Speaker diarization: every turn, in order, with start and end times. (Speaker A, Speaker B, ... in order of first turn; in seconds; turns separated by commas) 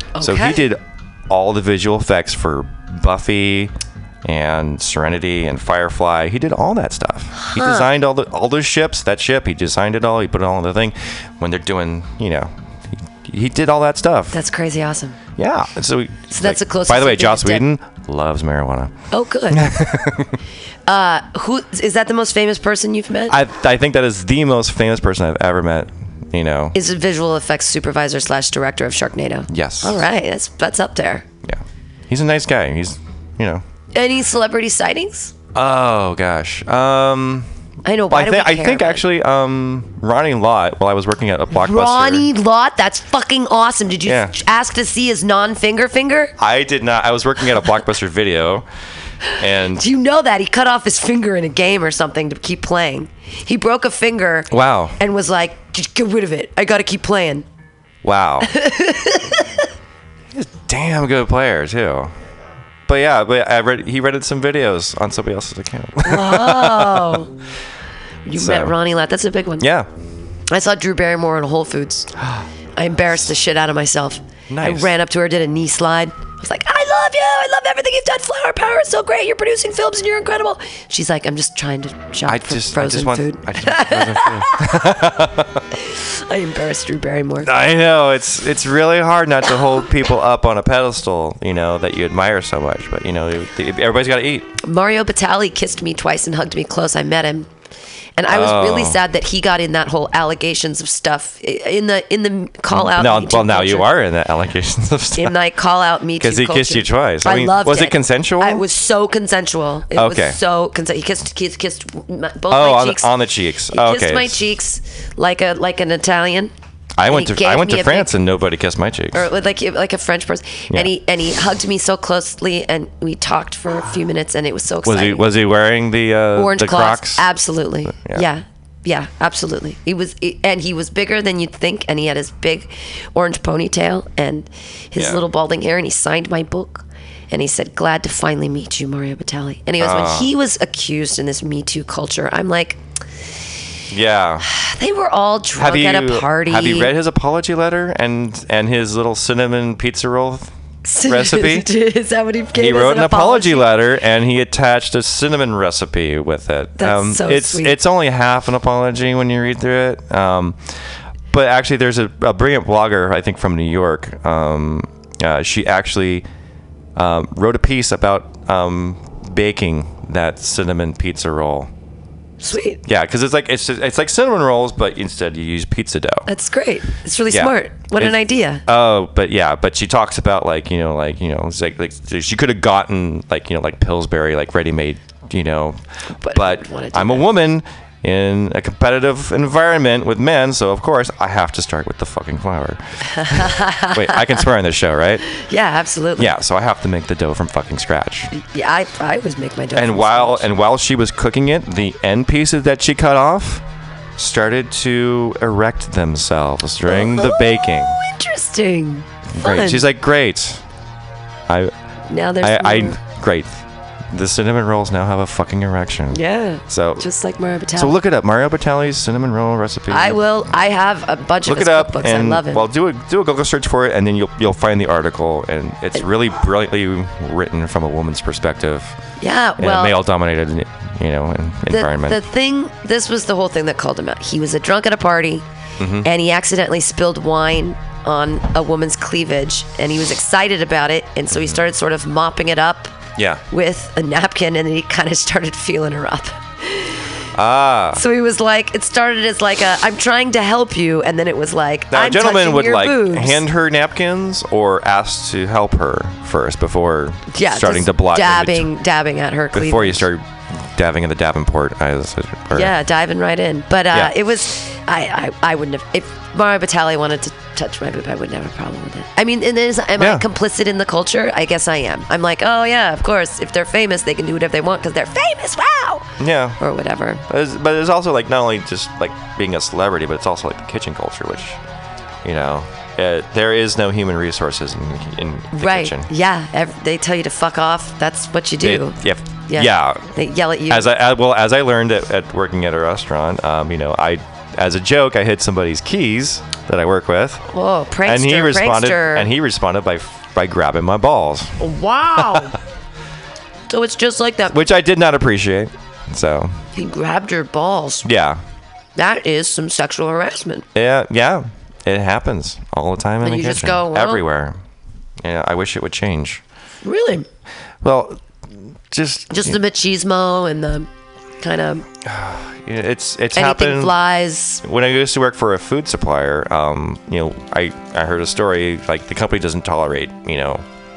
Speaker A: 0.1-0.7, Speaker B: 0.2-3.7, Speaker B: 4.2-14.3, Speaker A: 7.3-7.9, Speaker A: 14.3-15.2, Speaker B: 15.4-18.9, Speaker A: 16.3-17.7, Speaker A: 19.1-19.7, Speaker B: 19.5-20.4, Speaker A: 20.9-23.4, Speaker B: 23.3-26.8, Speaker A: 26.8-31.3, Speaker B: 29.5-30.1, Speaker B: 31.4-33.6, Speaker A: 33.9-35.3, Speaker B: 35.5-37.5, Speaker A: 37.9-39.0, Speaker B: 38.1-42.3, Speaker A: 41.5-46.3, Speaker B: 44.0-44.3, Speaker B: 46.4-48.7, Speaker B: 49.4-49.9, Speaker A: 49.8-57.5, Speaker B: 54.5-55.0, Speaker B: 58.0-58.5, Speaker A: 58.4-59.6, Speaker B: 60.3-62.1, Speaker B: 62.9-67.3, Speaker A: 66.0-67.3, Speaker A: 68.3-69.7, Speaker B: 68.3-68.8, Speaker B: 69.6-69.9, Speaker A: 70.5-72.1, Speaker B: 72.2-72.5, Speaker A: 72.8-84.8, Speaker B: 74.5-74.9, Speaker B: 82.3-85.7, Speaker A: 85.9-87.5, Speaker B: 87.4-94.5, Speaker A: 94.6-97.5, Speaker A: 98.2-103.9, Speaker B: 98.3-99.0, Speaker B: 102.7-105.4, Speaker A: 105.2-113.1, Speaker B: 106.2-108.7, Speaker B: 109.9-110.4, Speaker B: 112.5-114.4, Speaker A: 113.7-116.5, Speaker B: 117.0-119.3, Speaker A: 117.1-118.1, Speaker A: 119.1-125.3, Speaker B: 124.8-127.2, Speaker A: 126.3-142.8, Speaker B: 127.9-128.3, Speaker B: 135.0-135.2, Speaker B: 139.8-140.3, Speaker B: 143.9-144.5, Speaker A: 144.4-146.9, Speaker B: 145.6-150.5, Speaker A: 150.8-153.7, Speaker B: 151.1-151.7, Speaker B: 152.6-160.6, Speaker A: 156.8-157.8, Speaker B: 161.3-166.3, Speaker B: 167.0-171.7, Speaker A: 172.4-172.8, Speaker B: 172.8-176.3, Speaker A: 176.3-178.6, Speaker B: 177.3-195.2, Speaker A: 186.2-187.3, Speaker A: 193.2-194.4, Speaker A: 195.3-196.3, Speaker B: 196.2-198.3, Speaker A: 198.3-200.5, Speaker B: 199.7-203.6, Speaker B: 204.2-208.0, Speaker A: 206.9-209.9, Speaker B: 209.3-210.6, Speaker B: 211.5-211.7, Speaker A: 212.1-213.0, Speaker B: 212.4-217.1, Speaker A: 216.1-218.0, Speaker B: 217.8-220.2, Speaker A: 219.9-222.7, Speaker B: 221.5-229.0, Speaker A: 229.2-230.0, Speaker B: 229.6-232.2, Speaker A: 231.7-235.4, Speaker B: 235.8-236.1, Speaker A: 236.0-242.9, Speaker B: 241.3-241.6, Speaker B: 243.2-243.4, Speaker A: 243.5-247.0, Speaker B: 247.3-248.0, Speaker A: 247.9-253.4, Speaker B: 251.9-258.7, Speaker A: 257.3-260.1, Speaker B: 259.5-262.8, Speaker A: 262.5-277.2, Speaker B: 263.9-264.2, Speaker B: 270.0-270.3, Speaker B: 276.2-276.6, Speaker B: 277.3-281.6, Speaker B: 282.2-286.1, Speaker A: 285.5-290.9, Speaker B: 288.6-290.1, Speaker B: 290.7-297.4, Speaker A: 297.5-299.3, Speaker B: 298.1-301.6, Speaker A: 301.6-302.6, Speaker B: 302.2-302.5, Speaker A: 303.7-304.6, Speaker B: 304.5-306.6, Speaker A: 306.7-308.1, Speaker B: 308.1-308.4, Speaker A: 309.0-310.6, Speaker B: 310.8-314.6, Speaker A: 313.2-314.2, Speaker B: 315.2-316.4, Speaker A: 316.8-317.3, Speaker B: 317.8-318.2, Speaker B: 318.9-319.6, Speaker A: 319.3-320.9, Speaker A: 321.4-321.9, Speaker B: 322.0-324.0, Speaker A: 323.4-324.6, Speaker B: 324.6-330.6